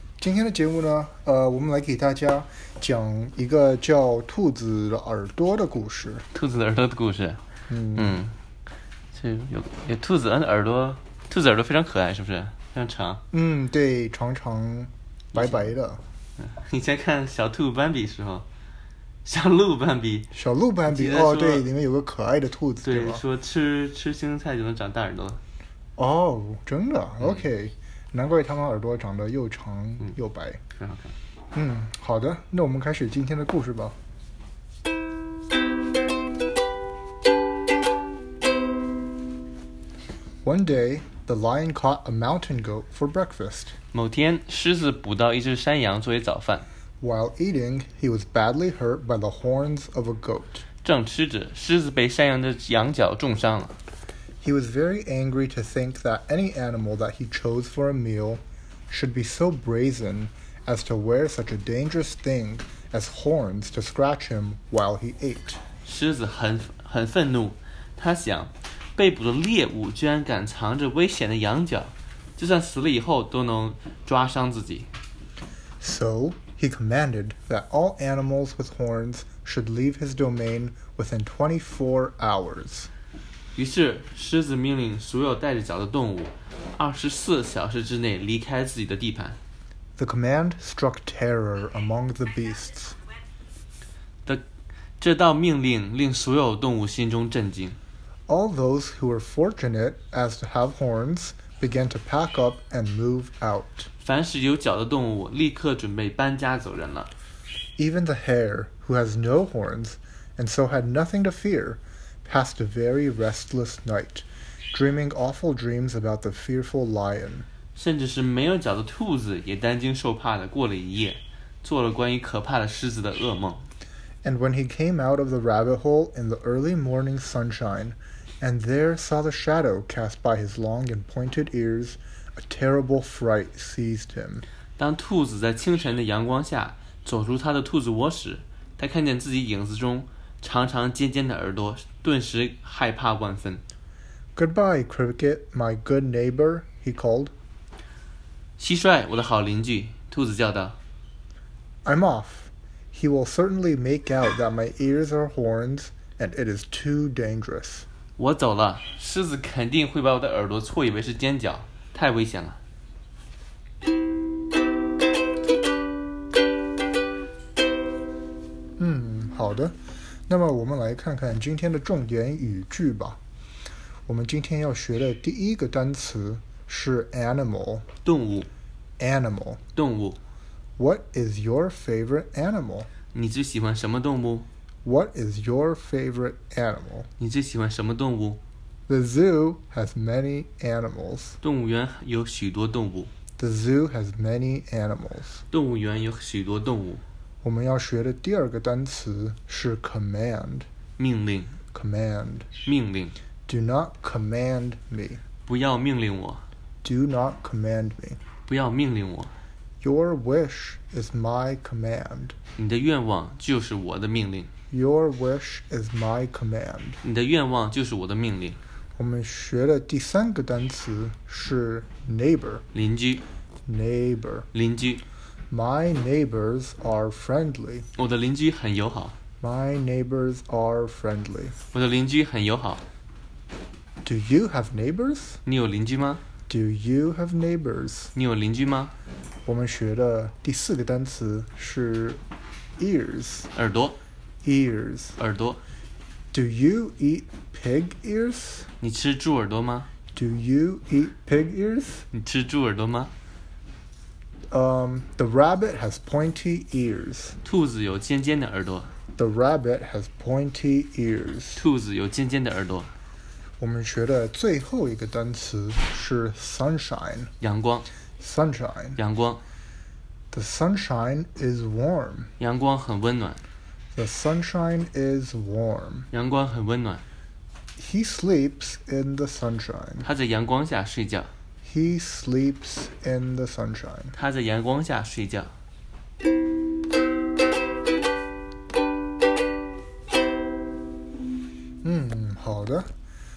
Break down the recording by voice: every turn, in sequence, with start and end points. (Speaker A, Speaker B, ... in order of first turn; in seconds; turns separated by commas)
Speaker A: 0.2-6.2, Speaker B: 6.3-7.4, Speaker A: 7.7-8.2, Speaker B: 7.9-8.3, Speaker B: 9.1-13.2, Speaker A: 13.3-16.0, Speaker B: 15.3-15.7, Speaker B: 16.4-18.4, Speaker B: 19.2-20.3, Speaker A: 20.3-23.2, Speaker B: 20.9-21.7, Speaker B: 22.8-25.4, Speaker A: 26.0-30.6, Speaker B: 30.8-31.1, Speaker A: 31.5-34.0, Speaker A: 40.4-43.7, Speaker B: 43.9-46.7, Speaker A: 47.0-50.6, Speaker B: 50.8-53.7, Speaker A: 54.4-65.6, Speaker B: 65.8-74.9, Speaker A: 75.8-82.9, Speaker B: 83.5-89.4, Speaker A: 90.0-93.0, Speaker B: 95.0-97.8, Speaker A: 98.3-103.9, Speaker B: 104.0-107.1, Speaker A: 107.8-117.5, Speaker B: 117.7-123.6, Speaker A: 124.2-134.4, Speaker B: 134.8-143.6, Speaker A: 144.3-147.3, Speaker B: 148.6-150.8, Speaker A: 151.8-157.8, Speaker B: 158.2-162.6, Speaker A: 168.8-169.8, Speaker A: 170.3-173.2, Speaker A: 174.1-177.9, Speaker B: 178.0-178.5, Speaker A: 179.0-179.6, Speaker B: 179.7-180.2, Speaker A: 180.8-182.9, Speaker B: 183.1-184.4, Speaker A: 184.8-187.1, Speaker B: 187.2-188.4, Speaker A: 188.9-191.4, Speaker B: 191.4-193.1, Speaker A: 193.4-195.4, Speaker B: 195.5-197.0, Speaker A: 197.4-200.7, Speaker B: 201.0-201.6, Speaker A: 201.7-202.5, Speaker B: 202.6-203.1, Speaker A: 203.5-205.2, Speaker B: 205.4-206.4, Speaker A: 206.8-208.2, Speaker B: 208.5-209.3, Speaker A: 209.8-212.3, Speaker B: 212.6-214.5, Speaker A: 214.7-217.0, Speaker B: 217.0-218.6, Speaker A: 219.0-222.6, Speaker B: 222.7-223.2, Speaker A: 223.7-224.5, Speaker B: 224.5-225.0, Speaker A: 225.5-227.9, Speaker B: 227.9-229.1, Speaker A: 229.4-231.5, Speaker B: 231.7-232.8, Speaker A: 234.0-235.4, Speaker B: 235.4-236.2, Speaker A: 236.5-238.1, Speaker B: 238.1-238.9, Speaker A: 239.4-242.2, Speaker A: 242.8-243.5, Speaker B: 243.5-244.0, Speaker A: 244.4-245.2, Speaker B: 245.2-245.6, Speaker A: 246.3-248.7, Speaker B: 248.8-249.9, Speaker A: 250.1-252.1, Speaker B: 252.1-253.1, Speaker A: 254.5-257.4, Speaker B: 257.4-258.9, Speaker A: 259.1-261.6, Speaker B: 261.6-262.9, Speaker A: 263.6-267.3, Speaker B: 267.4-267.9, Speaker A: 268.2-269.0, Speaker B: 268.9-269.4, Speaker A: 270.3-272.3, Speaker B: 272.4-273.4, Speaker A: 273.9-276.1, Speaker B: 276.1-277.0, Speaker A: 277.8-280.1, Speaker B: 280.0-281.3, Speaker A: 281.6-284.1, Speaker B: 284.1-285.5, Speaker A: 291.8-292.9